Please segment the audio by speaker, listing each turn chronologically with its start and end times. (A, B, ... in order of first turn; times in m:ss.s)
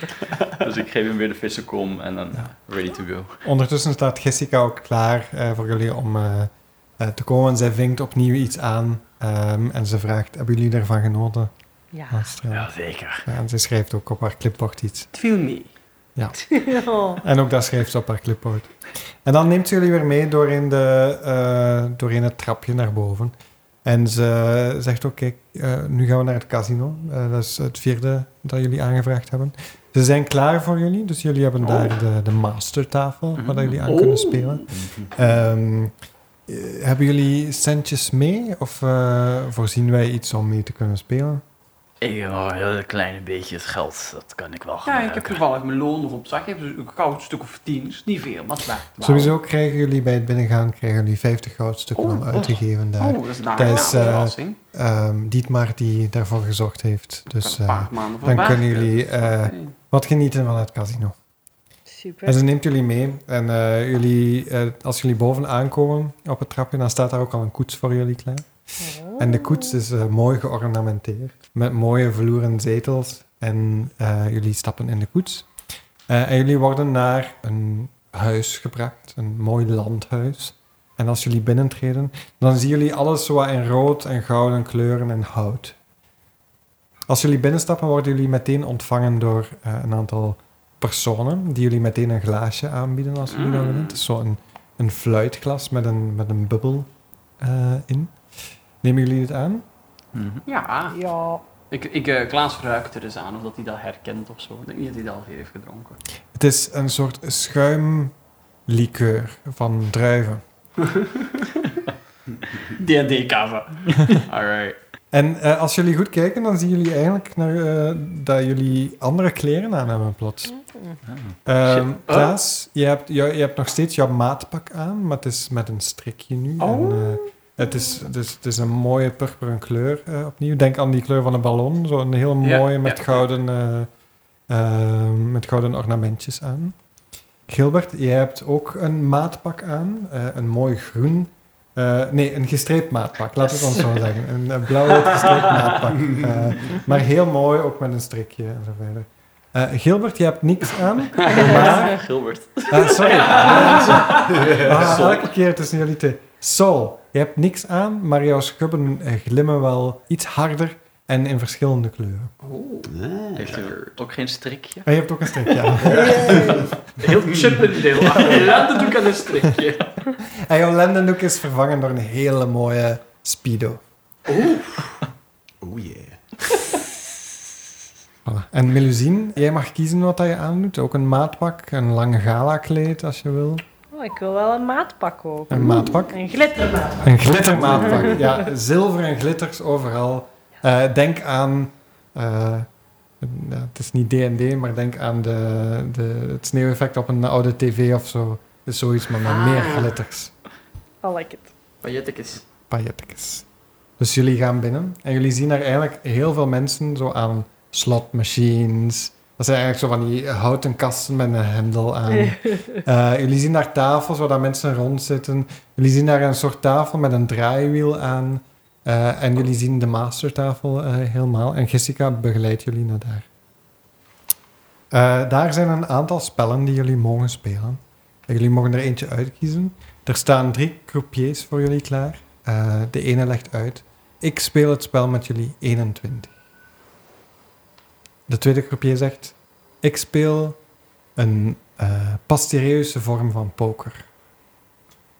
0:00.2-0:00.7 A
0:00.6-0:03.4 B
0:03.4-0:11.5 C
0:11.9-0:12.2 D
0:12.1-0:12.7 C
0:12.5-0:13.2 B
0:13.2-0:15.1 C
0:15.1-0:15.7 A
0:16.2-0:16.4 C
0:16.4-0:17.2 D
0:17.2-0:23.3 C
0:23.8-0:35.9 C
0:31.6-0:31.9 A
0:33.4-0:33.8 B
0:33.9-0:34.7 A
0:34.7-0:35.3 E
0:36.5-0:41.4 C
0:42.0-0:45.4 B
0:44.8-0:49.4 A
0:49.0-1:01.2 C
0:52.0-0:54.6 A
0:53.7-0:54.2 D
0:57.3-0:59.8 A
1:01.9-1:02.4 D
1:02.3-1:08.5 C
1:08.8-1:09.8 D
1:09.2-1:15.5 C
1:16.1-1:25.8 C
1:27.1-1:36.9 C
1:33.3-1:34.0 A
1:37.4-1:38.1 C
1:38.8-1:39.6 C
1:40.1-1:40.4 B
1:40.5-1:41.0 A
1:40.9-1:41.4 D
1:41.7-1:46.0 A
1:46.3-1:48.1 C
1:48.7-1:50.4 C
1:50.8-1:51.8 A
1:52.6-1:54.8 A
1:55.1-2:00.6 C
2:00.6-2:01.0 D
2:01.1-2:01.4 B
2:01.5-2:13.9 C
2:02.1-2:02.4 A
2:06.6-2:07.3 A
2:12.4-2:13.2 A
2:14.5-2:16.8 C
2:17.5-2:32.0 C
2:31.2-2:35.2 B
2:31.2-2:31.6 A
2:32.7-2:42.3 C
2:33.2-2:34.3 A
2:34.0-2:35.1 E
2:42.4-2:42.9 A
2:42.8-2:43.6 E
2:43.4-2:46.4 B
2:43.5-2:44.0 A
2:44.9-2:46.5 C
2:45.9-2:49.9 A
2:45.9-2:46.7 D
2:46.0-2:46.7 E
2:47.3-2:47.6 E
2:50.4-2:53.8 C
2:54.3-2:55.0 A
2:55.6-2:56.2 E
2:58.2-3:03.6 C
3:03.9-3:08.4 D
3:05.5-3:06.2 C
3:07.0-3:12.7 C
3:07.4-3:08.1 E
3:13.2-3:20.3 C
3:19.2-3:20.0 A
3:21.0-3:21.5 D
3:21.8-3:22.4 A
3:22.7-3:23.4 C
3:24.0-3:43.3 C
3:32.2-3:32.6 D
3:44.9-3:56.3 C
3:58.3-4:00.6 C
4:01.2-4:04.0 C